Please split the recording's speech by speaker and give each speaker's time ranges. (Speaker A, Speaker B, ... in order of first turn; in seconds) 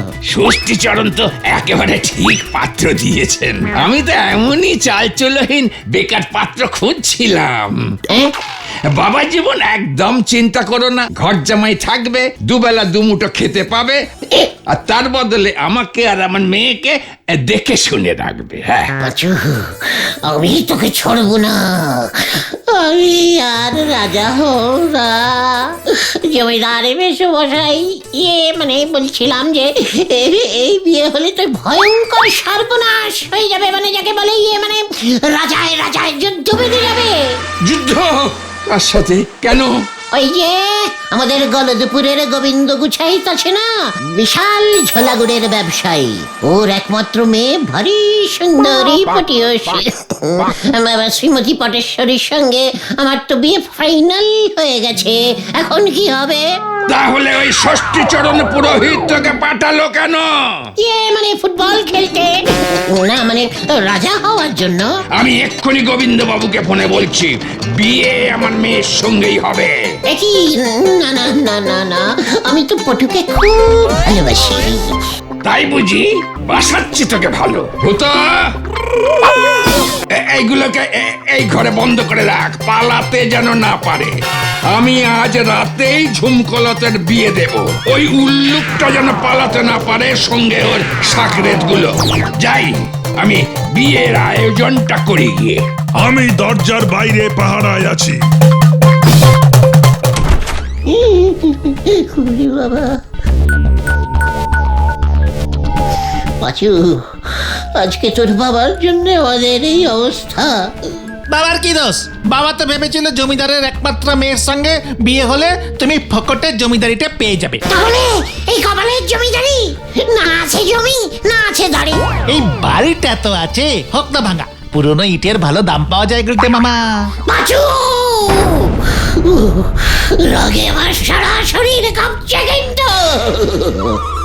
Speaker A: 0.3-7.9, 8.9-18.9, 37.6-39.8, 56.9-60.6, 65.2-69.9, 75.4-78.5, 80.1-84.1, 84.7-95.6
Speaker B: 19.0-37.1, 40.1-56.4, 60.8-64.9, 70.1-75.0, 100.8-103.0, 106.4-110.8, 117.7-122.0, 127.3-134.0
Speaker C: 96.0-98.2
Speaker D: 111.3-117.6, 122.3-127.1